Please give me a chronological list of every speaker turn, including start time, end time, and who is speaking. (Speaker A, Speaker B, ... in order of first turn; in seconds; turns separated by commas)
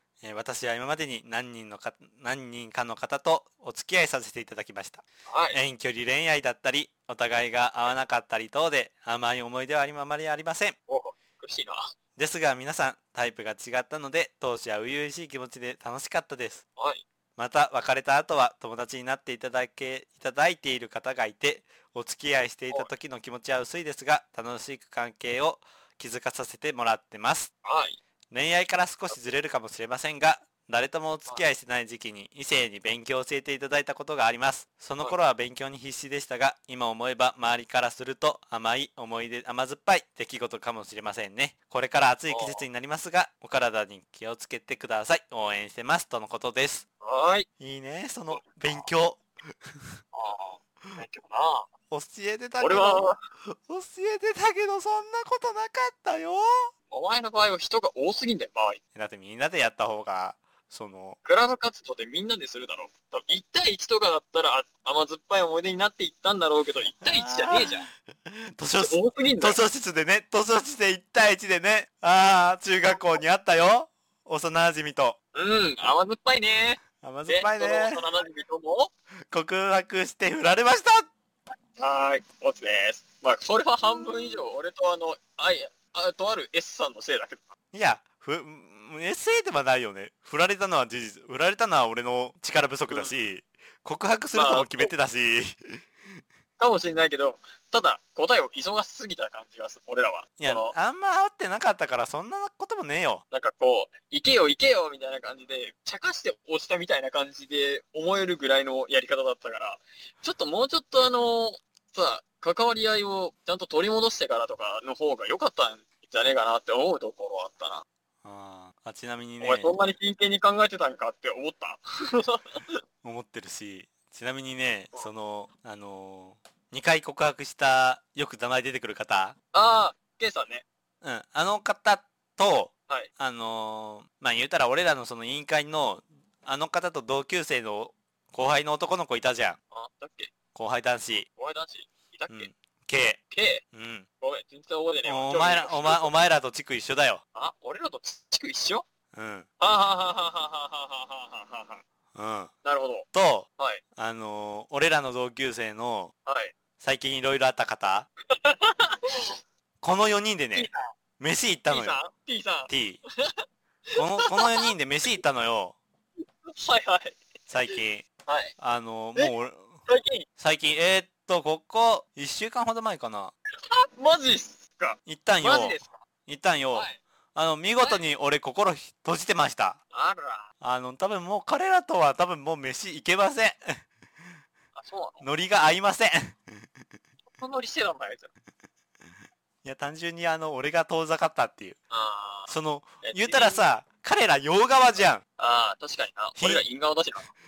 Speaker A: 0.2-10.8, Speaker B: 5.3-5.6, Speaker B: 10.9-11.8, Speaker A: 12.2-16.6, Speaker B: 16.8-17.0, Speaker A: 17.4-27.5, Speaker B: 27.6-28.0, Speaker A: 28.3-46.8, Speaker B: 42.3-42.6, Speaker B: 47.0-47.5, Speaker A: 47.6-49.2, Speaker B: 48.3-48.8, Speaker B: 50.1-51.7, Speaker A: 51.9-56.7, Speaker B: 52.6-53.2, Speaker B: 56.9-58.8, Speaker A: 58.9-61.2, Speaker B: 61.2-67.9, Speaker A: 67.0-75.2, Speaker B: 68.8-69.6, Speaker B: 75.3-78.9, Speaker A: 77.0-78.0, Speaker A: 79.3-81.1, Speaker B: 81.8-87.5, Speaker A: 87.7-95.8, Speaker B: 94.3-94.9, Speaker B: 96.6-100.7, Speaker A: 100.4-103.2, Speaker B: 103.3-117.8, Speaker A: 118.2-119.7, Speaker B: 119.4-122.8, Speaker A: 123.0-129.3, Speaker B: 129.5-130.6, Speaker A: 131.0-139.6, Speaker B: 139.7-140.3, Speaker A: 140.5-141.3, Speaker B: 141.4-142.5, Speaker A: 142.3-143.2, Speaker B: 143.3-143.6, Speaker A: 143.7-144.1, Speaker B: 144.2-146.1, Speaker A: 145.0-147.2, Speaker B: 147.3-148.8, Speaker A: 149.1-149.5, Speaker B: 149.6-151.8, Speaker A: 152.1-152.5, Speaker B: 152.6-153.1, Speaker A: 153.1-156.1, Speaker B: 156.2-156.5, Speaker A: 156.8-158.1, Speaker B: 158.3-159.3, Speaker A: 159.8-162.0, Speaker B: 160.5-160.9, Speaker B: 161.7-164.7, Speaker A: 162.7-163.0, Speaker A: 163.9-165.8, Speaker B: 166.4-167.2, Speaker A: 167.5-168.1, Speaker B: 168.3-168.5, Speaker A: 168.6-169.8, Speaker B: 169.9-170.2, Speaker A: 170.4-173.3, Speaker B: 173.6-176.0, Speaker A: 175.1-179.8, Speaker B: 176.7-177.0, Speaker B: 179.9-180.5, Speaker A: 180.6-183.8, Speaker B: 184.7-185.2, Speaker A: 185.2-186.4, Speaker B: 187.3-188.3, Speaker A: 189.6-191.8, Speaker B: 191.9-193.6, Speaker A: 192.5-195.2, Speaker B: 195.4-197.3, Speaker A: 196.4-196.6